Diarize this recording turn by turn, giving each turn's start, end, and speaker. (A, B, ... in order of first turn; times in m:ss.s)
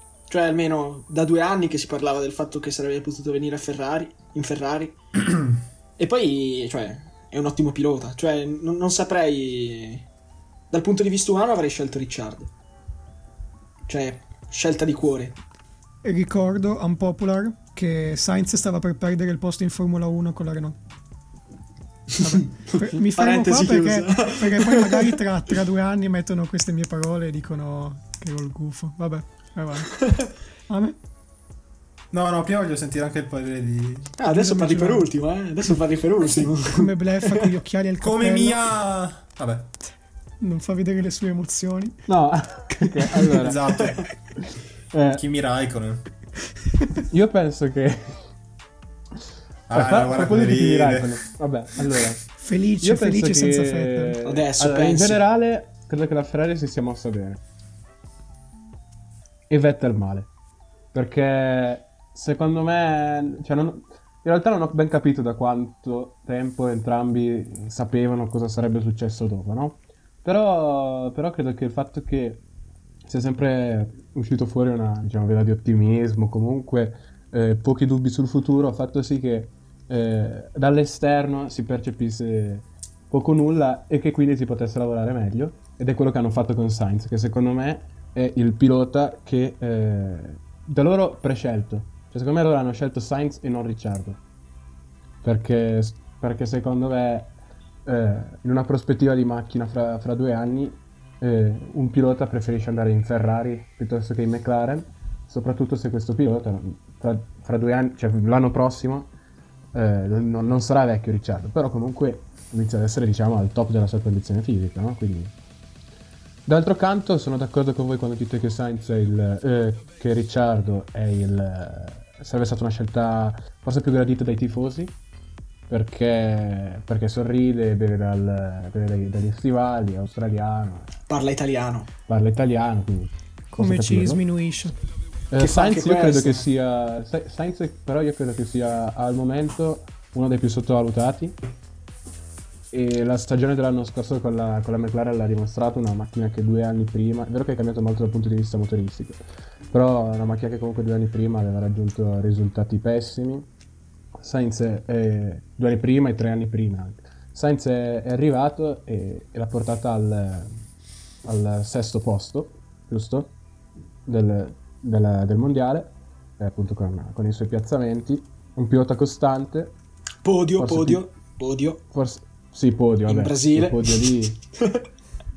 0:00.3-0:05.0 A
0:06.0-0:10.0 A
0:10.7-0:12.5 A
0:13.9-0:15.4 A
0:16.0-0:20.8 B
0:22.2-0:30.0 B
0:23.0-0:25.1 A
0:30.7-0:31.0 B
0:32.1-0:34.1 C
0:34.2-0:37.4 A
0:34.3-0:35.1 B
0:36.7-0:38.6 B
0:38.0-0:39.7 C
0:40.4-0:42.0 B
0:42.1-0:43.6 D
0:42.8-0:43.2 B
0:43.4-0:44.0 C
0:44.9-0:45.2 D
0:45.1-0:46.0 C
0:47.1-0:48.2 D
0:49.7-0:51.2 C
0:49.7-0:52.2 D
0:52.4-0:54.2 B
0:52.8-0:57.4 D
0:54.2-0:55.2 A
0:59.5-1:00.3 D
1:00.9-1:12.4 D
1:13.0-1:34.2 D
1:35.2-1:37.3 D
1:37.8-1:49.1 D
1:49.7-1:55.3 D
1:56.4-2:04.9 D
2:05.7-2:10.9 D
2:11.1-2:11.9 A
2:12.1-2:14.2 D
2:13.5-2:14.7 B
2:15.3-2:21.4 D
2:15.4-2:16.4 A
2:22.7-2:33.5 D
2:34.2-2:40.5 D
2:41.2-2:43.3 D
2:44.1-2:49.7 D
2:50.2-2:51.8 A
2:50.6-2:51.0 D
2:51.9-2:54.4 D
2:53.0-2:54.8 A